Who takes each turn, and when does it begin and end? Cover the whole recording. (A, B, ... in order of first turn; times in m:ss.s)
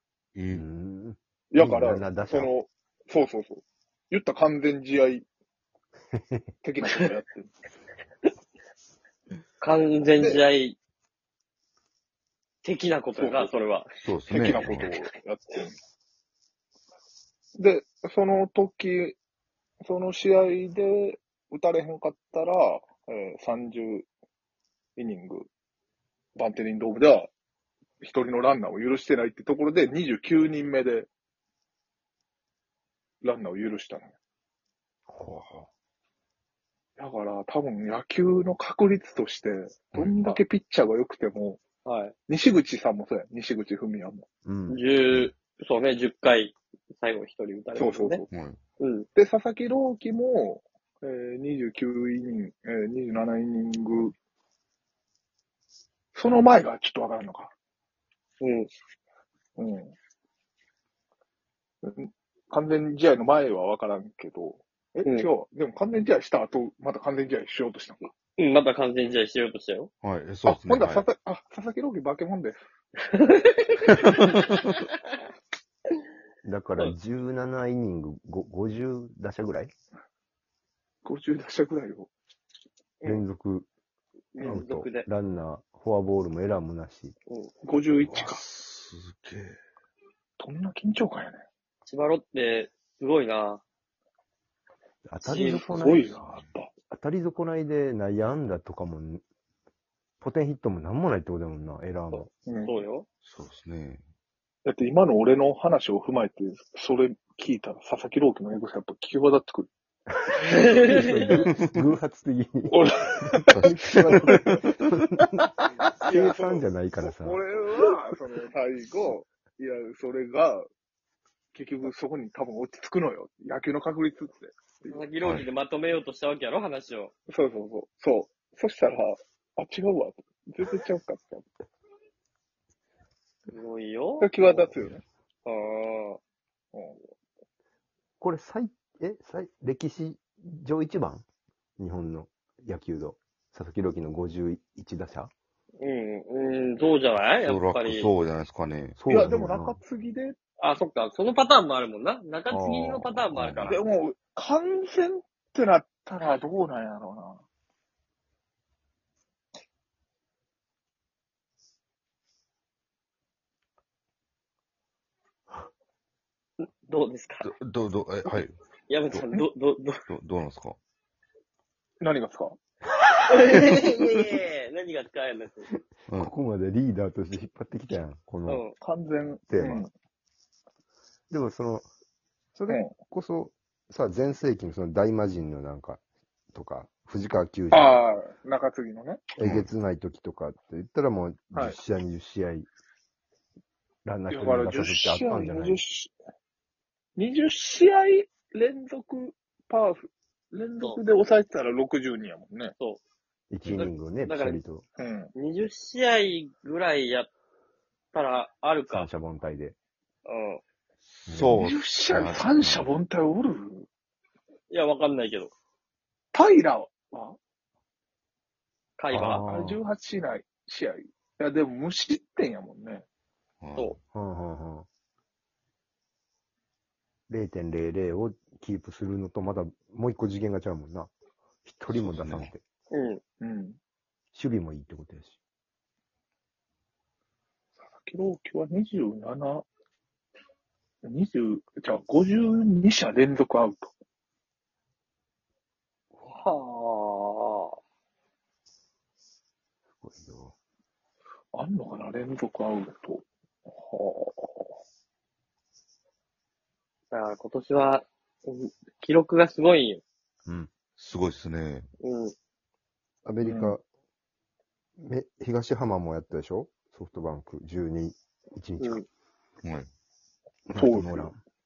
0:00.3-0:00.6 A
0:00.5-0:02.5 B
0:01.5-0:05.2 C
0:06.1-0:06.4 B
0:06.6-0:07.5 C
0:09.6-0:10.8 D
0:10.2-0:10.4 C
0:12.6-0:13.9 D
0:13.2-0:13.5 C
0:14.0-0:14.9 A
0:14.3-0:15.8 C
0:17.6-0:19.2 C
0:19.9-0:24.1 C
0:25.0-0:25.5 C
0:26.4-0:27.3 C
0:28.0-0:31.1 C
0:33.2-0:34.2 C
0:35.1-0:35.7 B
0:37.0-0:41.6 C
0:41.8-0:42.1 D
0:42.3-0:44.2 C
0:44.4-0:45.3 B
0:44.7-0:48.2 D
0:47.8-0:48.3 C
0:48.3-0:48.6 A
0:48.8-0:49.1 D
0:49.2-0:54.1 C
0:56.1-0:57.5 C
0:58.4-0:58.7 D
0:59.6-0:59.9 C
1:01.8-1:08.1 C
1:08.4-1:09.9 D
1:10.0-1:11.0 A
1:10.4-1:12.6 C
1:13.1-1:14.8 D
1:16.4-1:19.7 B
1:21.0-1:22.1 C
1:23.0-1:23.7 B
1:24.3-1:25.1 D
1:24.4-1:27.2 B
1:27.6-1:28.4 C
1:28.1-1:29.6 A
1:30.4-1:31.4 C
1:31.9-1:33.6 D
1:35.1-1:36.2 B
1:35.2-1:35.7 D
1:35.7-1:36.7 C
1:36.9-1:39.2 B
1:40.2-1:42.3 B
1:42.1-1:43.1 D
1:42.5-1:42.8 C
1:43.2-1:44.0 A
1:44.6-1:49.7 C
1:50.7-1:51.0 D
1:50.7-1:57.4 B
1:52.7-1:53.5 C
1:53.5-1:54.3 A
1:54.1-1:54.7 C
1:55.9-2:00.7 C
2:01.5-2:05.0 C
2:04.9-2:07.1 D
2:05.2-2:05.5 A
2:07.3-2:11.4 C
2:13.5-2:14.7 D
2:14.2-2:15.0 C
2:15.4-2:16.2 D
2:16.7-2:17.1 C
2:18.2-2:21.2 B
2:21.8-2:25.3 B
2:25.8-2:28.1 D
2:27.4-2:29.0 A
2:29.0-2:29.8 B
2:29.1-2:30.4 C
2:30.6-2:33.8 D
2:32.5-2:33.7 B
2:33.7-2:37.4 C
2:46.6-2:47.5 D
2:47.4-2:48.6 A
2:48.9-2:50.0 D
2:49.1-2:49.4 A
2:50.1-2:50.8 A
2:52.0-2:52.6 C
2:53.3-2:55.7 D
2:56.1-2:58.6 B
2:58.5-2:58.7 D
2:58.8-2:59.9 C
2:59.5-2:59.9 B
3:01.3-3:01.9 B
3:02.6-3:06.0 B
3:06.5-3:08.0 B
3:07.7-3:09.3 C
3:09.4-3:12.7 B
3:09.4-3:09.7 A
3:14.0-3:15.8 B
3:14.3-3:16.1 C
3:17.2-3:20.0 C
3:20.5-3:22.7 C
3:23.5-3:24.8 B
3:23.7-3:24.6 D
3:25.0-3:25.3 C
3:25.4-3:27.3 D
3:28.1-3:29.1 D
3:28.9-3:29.8 B
3:30.2-3:30.6 D
3:31.0-3:32.9 A
3:31.3-3:31.6 B
3:31.5-3:33.9 C
3:34.7-3:35.5 D
3:36.3-3:37.4 C
3:39.0-3:39.4 D
3:39.1-3:39.8 B
3:39.2-3:43.0 C
3:43.6-3:44.0 A
3:44.1-3:44.9 B
3:47.3-3:51.1 B
3:51.6-3:52.6 B
3:51.9-3:52.5 A
3:52.9-3:53.2 D
3:53.4-3:53.8 C
3:54.3-3:55.4 B
3:58.0-3:59.6 C
4:01.0-4:03.9 C
4:06.2-4:07.8 D
4:10.0-4:10.5 B
4:11.5-4:13.2 C
4:13.8-4:14.7 C
4:17.1-4:20.0 D
4:21.0-4:21.9 A
4:22.0-4:22.3 D
4:23.2-4:23.8 B
4:23.4-4:23.8 C
4:25.0-4:29.0 B
4:28.8-4:29.1 D
4:29.6-4:29.9 A
4:30.7-4:31.4 B
4:30.8-4:31.3 C